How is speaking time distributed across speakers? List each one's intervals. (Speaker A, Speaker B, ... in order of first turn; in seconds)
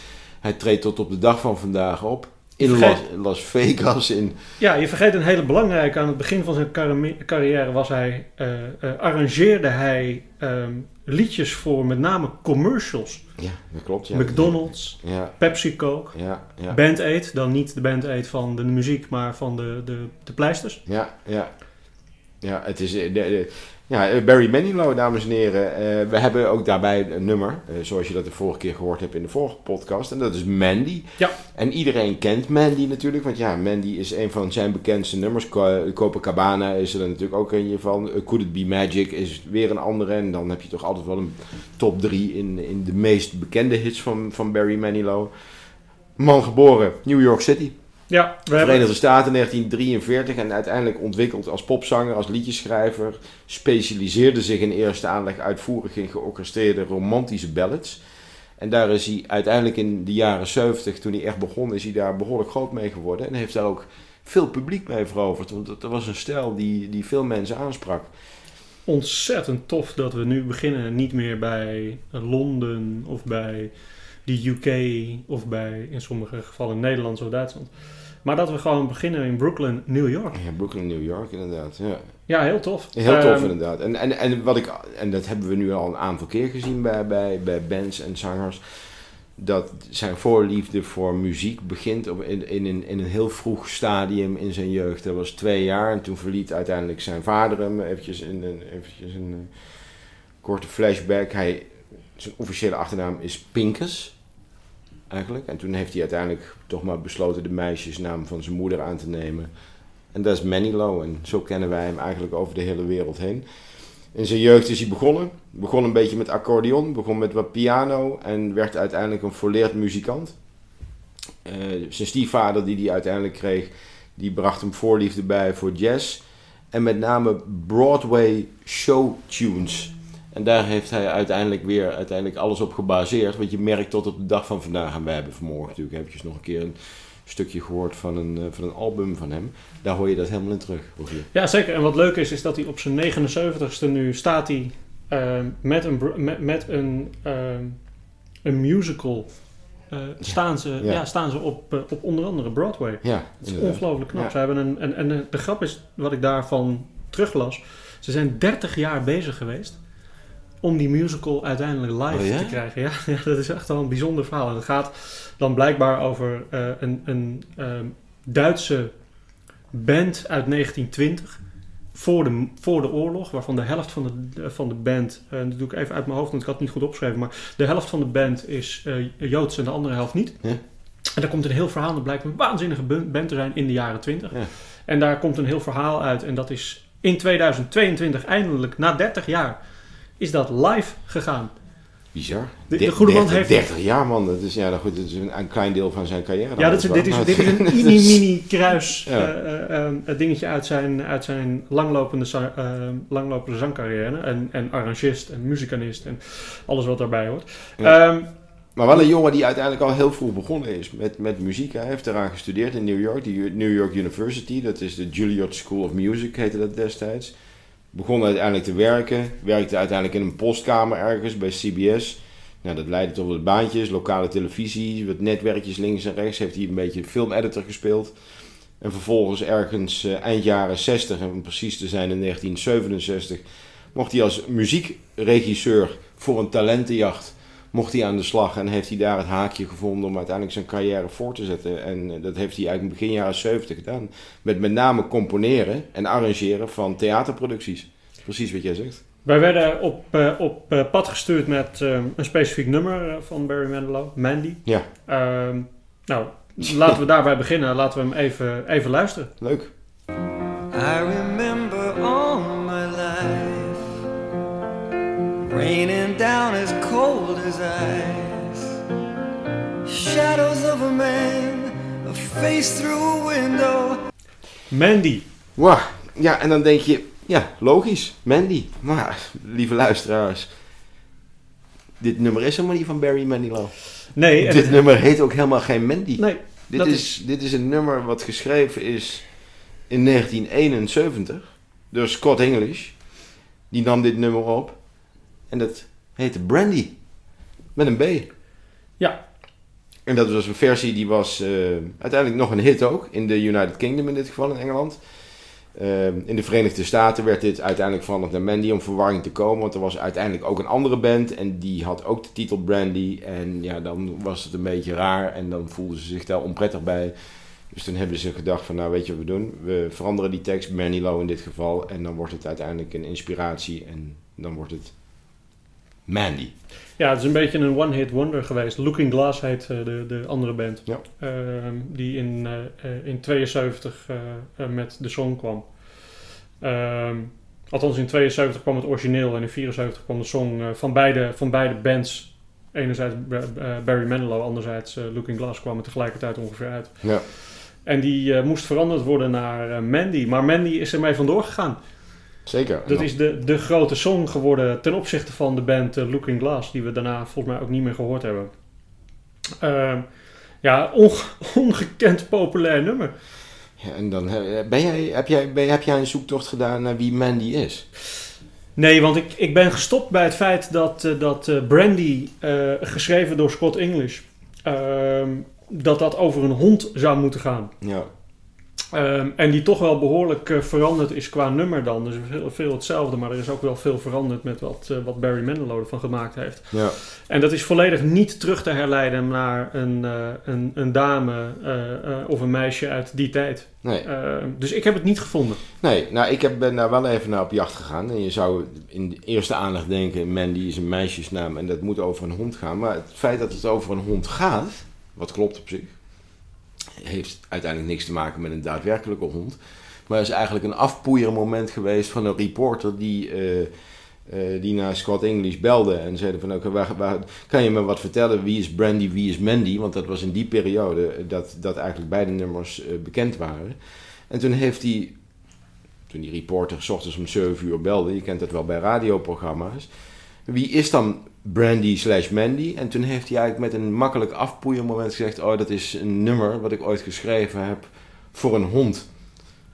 Speaker A: 0.4-4.3, 13.4-16.8, 20.9-21.8, 22.4-45.3, 46.2-47.7, 48.5-58.0, 58.6-68.1, 80.3-82.2, 82.9-88.6, 89.3-99.8, 100.4-104.2, 105.1-109.5, 110.1-113.5, 114.1-120.4, 121.4-141.3, 150.2-151.0, 153.0-154.3, 162.1-162.6, 192.1-198.2, 208.7-217.3, 217.9-228.1, 228.8-249.0, 259.4-259.7, 275.6-280.5, 282.0-293.0, 293.7-294.8, 295.5-296.9, 297.7-298.3, 300.1-305.0, 305.7-317.1, 317.7-324.9, 326.1-326.5, 352.4-353.1, 363.8-367.9, 377.8-378.1, 386.7-386.9, 395.8-406.0, 407.0-413.7, 414.2-425.2, 426.1-429.9, 430.4-439.1
Speaker B: 2.6-3.0, 4.6-13.2, 14.1-20.8, 48.1-48.8, 68.8-80.4, 82.3-83.5, 141.3-160.0, 160.6-180.5, 181.1-189.6, 190.2-191.5, 192.7-193.7, 196.6-208.3, 249.2-259.3, 274.7-275.2, 284.1-284.8, 286.2-287.1, 327.0-351.8, 352.9-358.5, 359.6-363.1, 368.8-377.7, 378.9-395.6
Speaker C: 260.7-263.9, 265.5-268.7, 269.9-274.0